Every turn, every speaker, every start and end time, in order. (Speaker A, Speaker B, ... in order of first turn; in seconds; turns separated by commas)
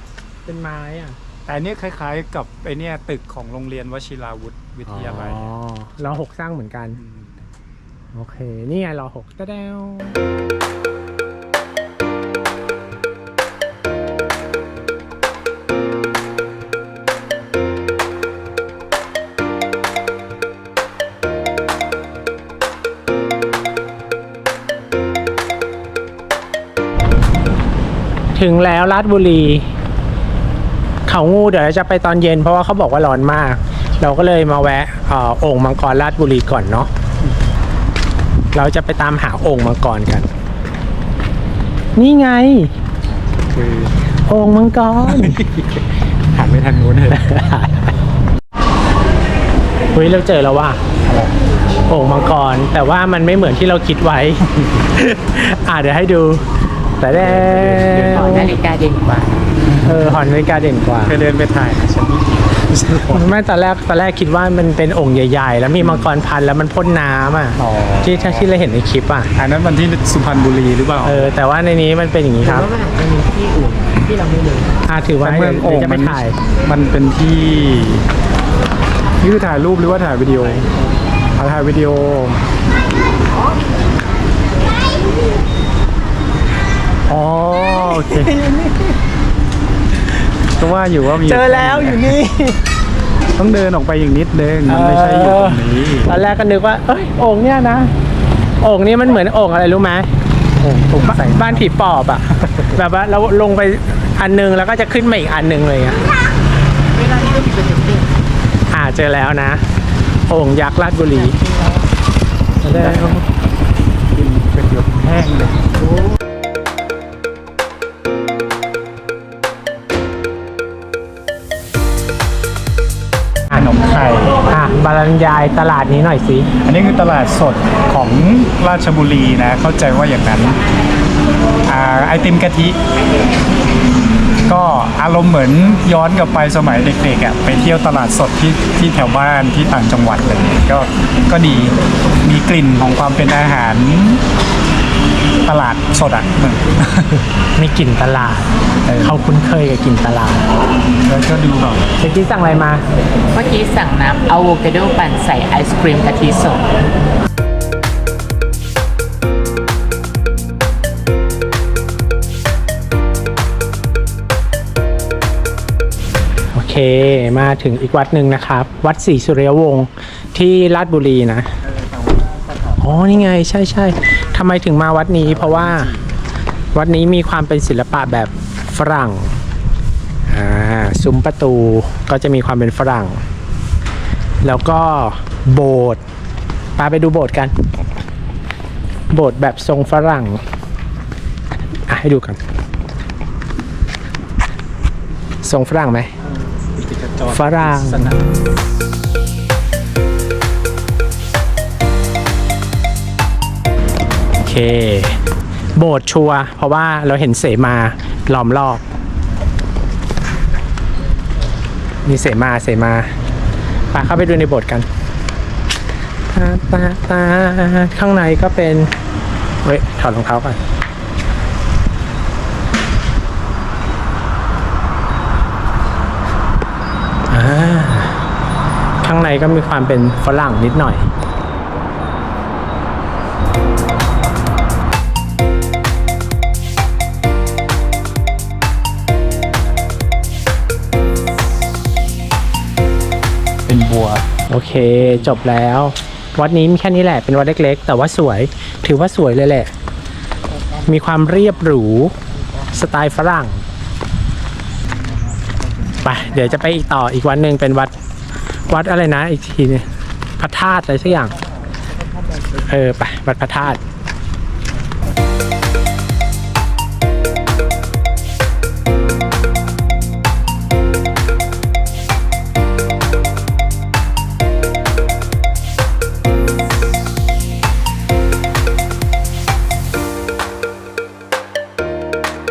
Speaker A: 0.5-1.2, Speaker B: 1.5-5.5, Speaker A: 4.9-7.0, Speaker B: 7.0-7.3, Speaker A: 8.1-10.2, Speaker A: 28.3-29.7, Speaker A: 31.1-36.9, Speaker A: 38.5-40.3, Speaker A: 42.0-42.7, Speaker B: 43.5-44.0, Speaker A: 44.2-45.5, Speaker B: 45.0-45.6, Speaker B: 46.4-47.1, Speaker A: 47.0-48.0, Speaker A: 49.9-50.8, Speaker B: 51.0-51.3, Speaker A: 51.9-58.6, Speaker B: 57.1-58.7, Speaker C: 58.1-59.4, Speaker B: 59.6-60.1, Speaker A: 59.9-61.2, Speaker B: 61.0-63.4, Speaker A: 63.1-69.3, Speaker B: 65.8-66.1, Speaker B: 67.6-68.5, Speaker B: 69.4-71.3, Speaker A: 71.0-72.7, Speaker C: 72.4-74.8, Speaker A: 74.9-76.4, Speaker B: 75.2-78.1, Speaker B: 79.2-80.7, Speaker B: 81.4-82.4, Speaker A: 87.1-89.0, Speaker B: 87.3-88.3, Speaker B: 90.6-92.2, Speaker A: 91.1-92.6, Speaker B: 93.3-96.1, Speaker A: 94.7-97.9, Speaker A: 98.6-100.1, Speaker B: 100.6-101.7, Speaker A: 100.6-106.0, Speaker C: 106.9-108.2, Speaker A: 108.7-109.7, Speaker A: 110.3-111.4, Speaker C: 111.1-111.9, Speaker A: 112.6-113.2, Speaker B: 112.7-113.2, Speaker B: 114.1-115.6, Speaker B: 123.5-124.4, Speaker A: 124.5-126.5, Speaker B: 126.6-130.6, Speaker B: 131.7-132.8, Speaker B: 134.4-144.2, Speaker B: 145.4-147.3, Speaker A: 147.6-150.5, Speaker B: 148.8-149.2, Speaker B: 151.0-151.9, Speaker A: 152.0-152.8, Speaker C: 153.3-156.7, Speaker A: 166.5-171.5, Speaker B: 171.6-173.4, Speaker A: 172.8-175.9, Speaker B: 175.2-176.1, Speaker A: 176.7-179.4, Speaker A: 180.3-183.2, Speaker A: 184.4-186.0, Speaker A: 186.8-187.5, Speaker A: 189.1-190.4, Speaker A: 191.9-192.4, Speaker A: 195.4-196.1, Speaker B: 196.5-198.3, Speaker A: 197.3-198.1, Speaker A: 204.4-205.2, Speaker A: 205.8-208.8, Speaker A: 212.1-213.1, Speaker A: 213.9-214.9, Speaker A: 216.3-218.9, Speaker A: 219.6-220.6, Speaker A: 227.3-228.2, Speaker A: 229.0-231.1, Speaker B: 243.7-244.3, Speaker A: 244.5-249.7, Speaker B: 245.0-245.4, Speaker A: 250.9-252.2, Speaker A: 252.7-253.6, Speaker A: 256.0-257.9, Speaker A: 258.7-259.9, Speaker A: 260.4-261.3, Speaker A: 262.6-263.8